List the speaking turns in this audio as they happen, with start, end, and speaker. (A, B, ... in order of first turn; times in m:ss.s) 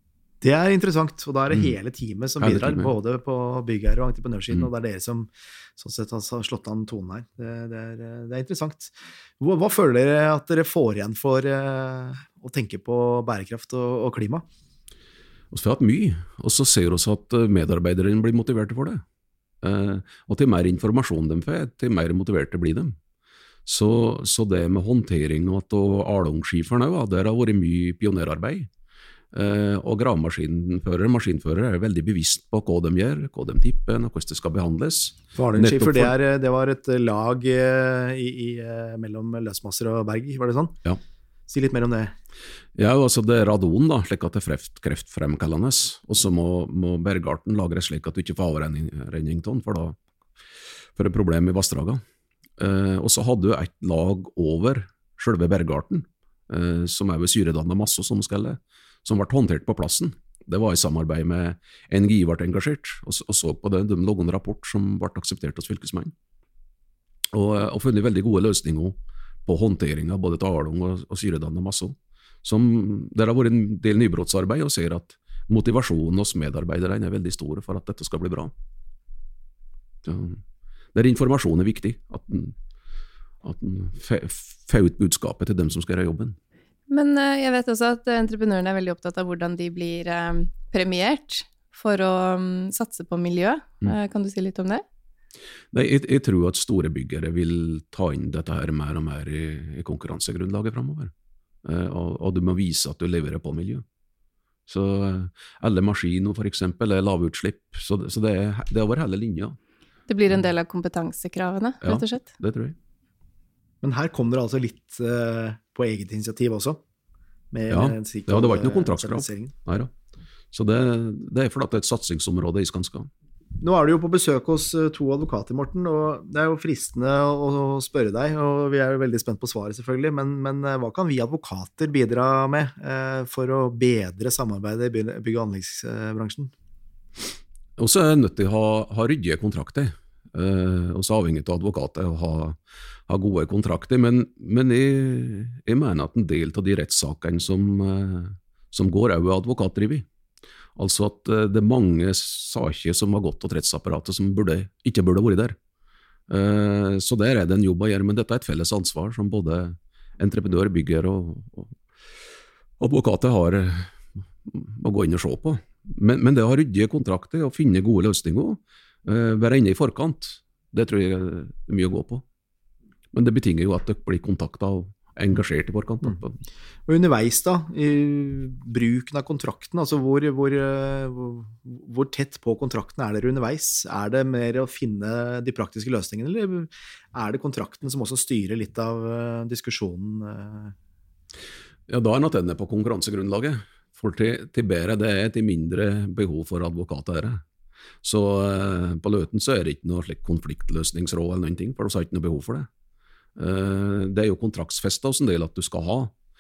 0:00.4-0:14.5 A
0:02.4-0:02.9 B
0:15.5-0:19.0 B
0:19.6-0:22.9 B
0:23.6-0:28.7 B
0:29.3-0:36.1 B
0:35.3-0:40.8 A
0:41.5-0:42.1 A
0:42.8-0:50.0 B
0:50.9-0:52.0 B
0:52.6-1:06.1 B
1:07.3-1:18.5 B
1:20.0-1:20.4 B
1:20.9-1:22.5 B
1:23.4-1:26.4 B
1:26.9-1:34.8 C
1:35.7-1:41.1 B
1:41.6-1:43.8 B
1:44.7-1:49.6 B
1:50.1-1:52.2 C
1:51.8-1:52.8 B
1:53.8-1:56.8 A
1:57.5-1:59.5 A
1:57.7-1:59.9 B
2:00.5-2:03.1 B
2:03.6-2:16.5 A
2:17.8-2:22.6 B
2:23.1-2:30.0 B
2:30.8-2:35.6 B
2:36.3-2:41.7 B
2:42.8-2:43.9 B
2:44.4-2:52.2 B
2:53.1-2:56.4 B
2:56.9-3:10.7 A
3:11.9-3:17.4 B
3:18.0-3:22.7 B
3:23.4-3:26.1 B